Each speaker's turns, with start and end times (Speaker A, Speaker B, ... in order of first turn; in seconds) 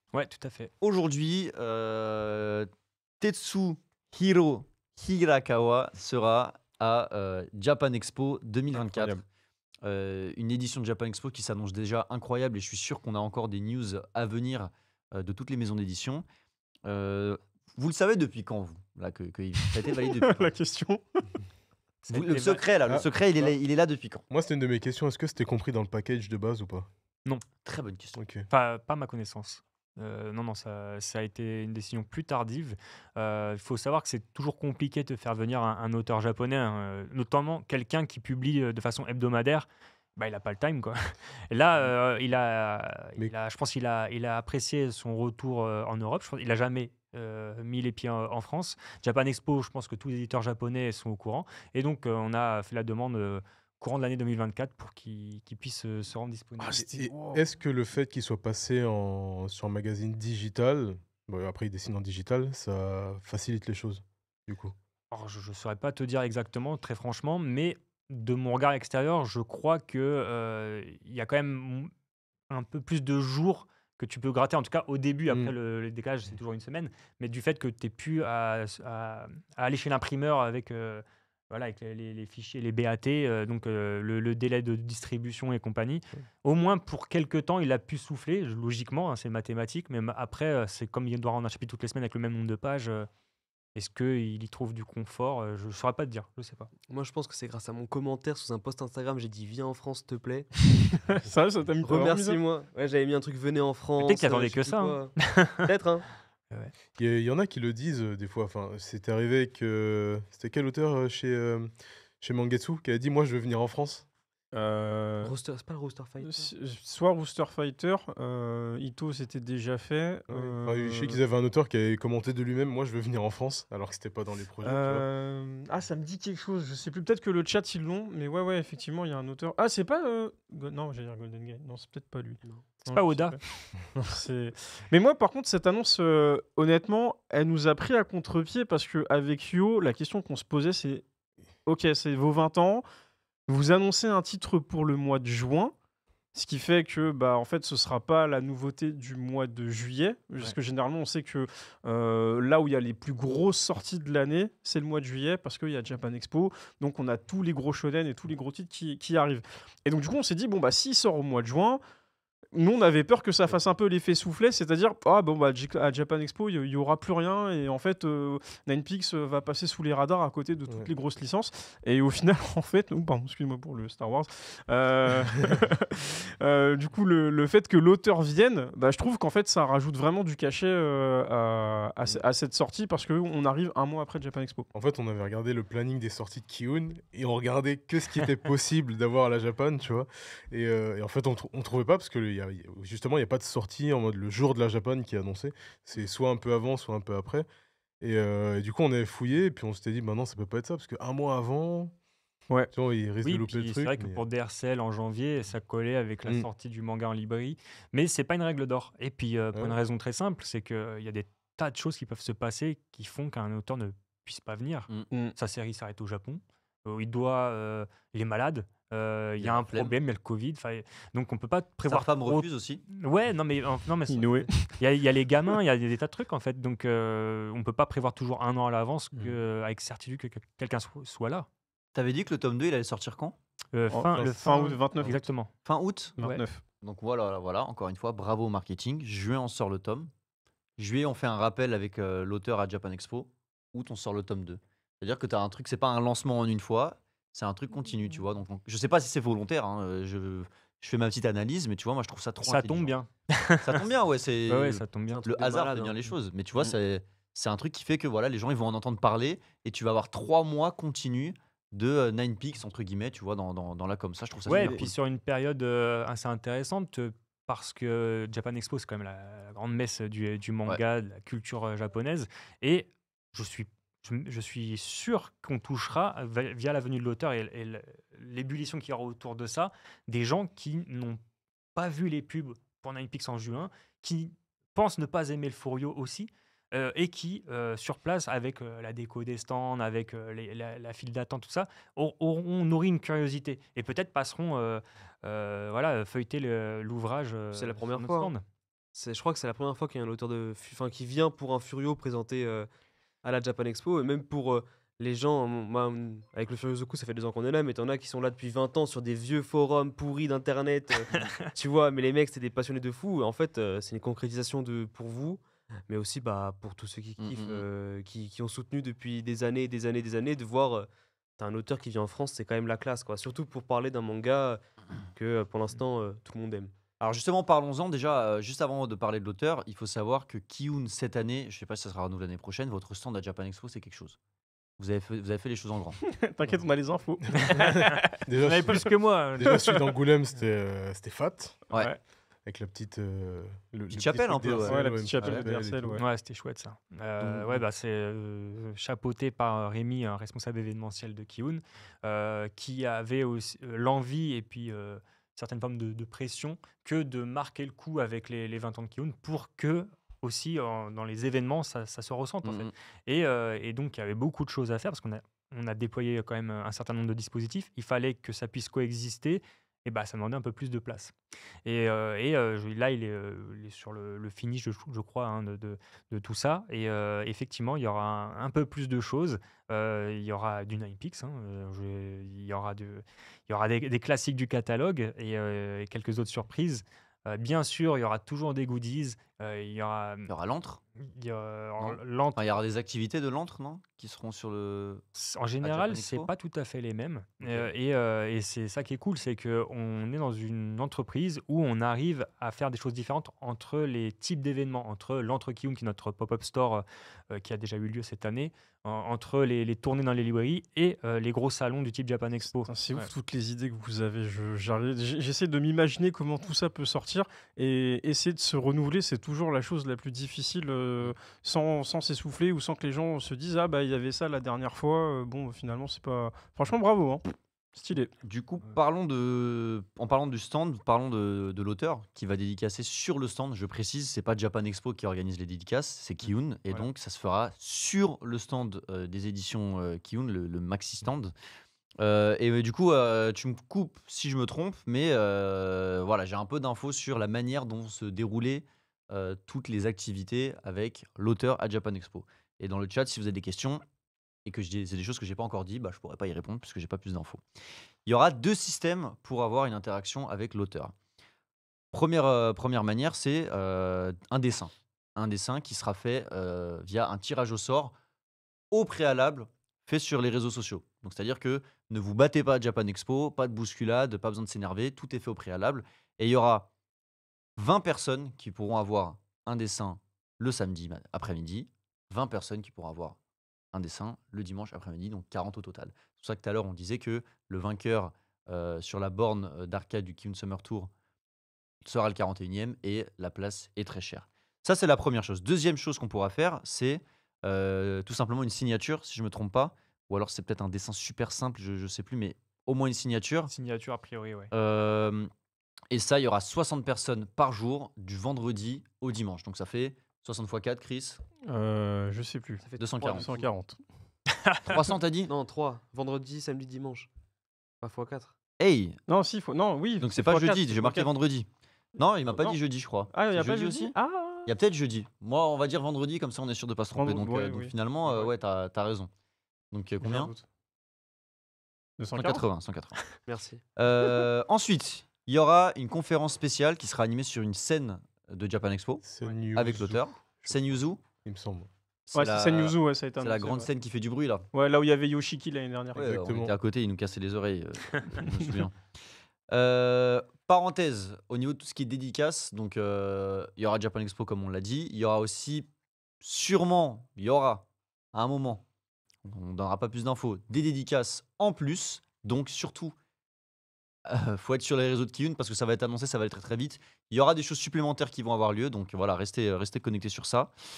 Speaker A: 0.1-0.7, 22.1-22.6, 28.5-41.0, 41.5-57.0, 65.1-71.9, 72.5-93.1, 93.8-96.7, 104.0-105.6, 132.9-133.7, 203.2-231.5, 233.7-235.5, 252.4-253.8, 254.5-255.2, 264.5-281.2, 281.8-298.4, 311.1-311.4, 337.4-339.9, 346.0-371.1, 371.6-390.3, 391.0-392.4, 395.2-413.1, 503.5-504.5, 514.4-514.9
Speaker B: 0.8-2.7, 3.2-9.2, 9.8-16.2, 16.9-20.5, 22.1-24.2, 27.6-28.2, 219.4-219.9, 221.8-222.8, 231.9-233.4, 235.7-236.2, 236.8-240.1, 240.8-252.9, 253.6-264.9, 317.2-317.6, 327.0-334.2, 334.8-336.0, 343.9-345.4, 347.2-347.6, 362.4-362.7, 390.3-390.8, 391.8-395.0, 395.6-396.3, 397.4-397.7, 428.2-441.3, 442.0-453.8, 454.5-457.4, 458.1-460.9, 461.9-467.9, 468.7-476.7, 477.6-483.2, 483.7-490.9, 491.8-503.5, 504.5-505.3, 505.9-511.2, 512.8-513.4, 514.6-515.3, 518.6-519.0, 520.0-529.1, 529.7-530.4, 532.1-533.0, 533.8-539.0, 539.5-541.0, 542.1-544.5, 546.0-548.8, 549.5-555.7, 556.2-558.6, 559.2-563.0, 564.1-570.5
Speaker C: 8.8-9.2, 19.6-21.2, 56.6-57.4, 101.0-102.4, 114.5-115.3, 116.2-121.2, 124.6-133.4, 133.9-141.1, 141.7-142.8, 143.5-145.7, 146.3-161.8, 162.5-184.7, 224.1-224.8, 233.9-235.2, 236.2-236.6, 336.0-337.7, 344.7-346.0, 412.6-428.1, 511.5-513.8, 519.1-521.1, 522.3-522.6, 523.1-524.5, 526.9-528.3, 530.0-530.4, 532.0-532.5, 542.1-543.7, 544.5-546.2
Speaker D: 22.9-23.6, 24.3-26.9, 28.1-28.5, 56.7-64.7, 75.3-75.5, 107.0-114.1, 120.3-125.1, 184.7-197.5, 198.0-201.9, 202.7-204.2, 234.1-234.4, 337.4-341.7, 342.5-346.0, 539.0-540.5, 541.2-541.7, 546.0-546.5
Speaker E: 96.9-100.5, 101.8-106.1, 115.2-116.5, 132.4-132.8, 255.1-256.1, 297.5-298.3, 298.9-302.7, 303.2-324.6, 325.1-326.7, 512.6-513.5, 515.3-517.1, 517.8-518.3, 533.3-533.6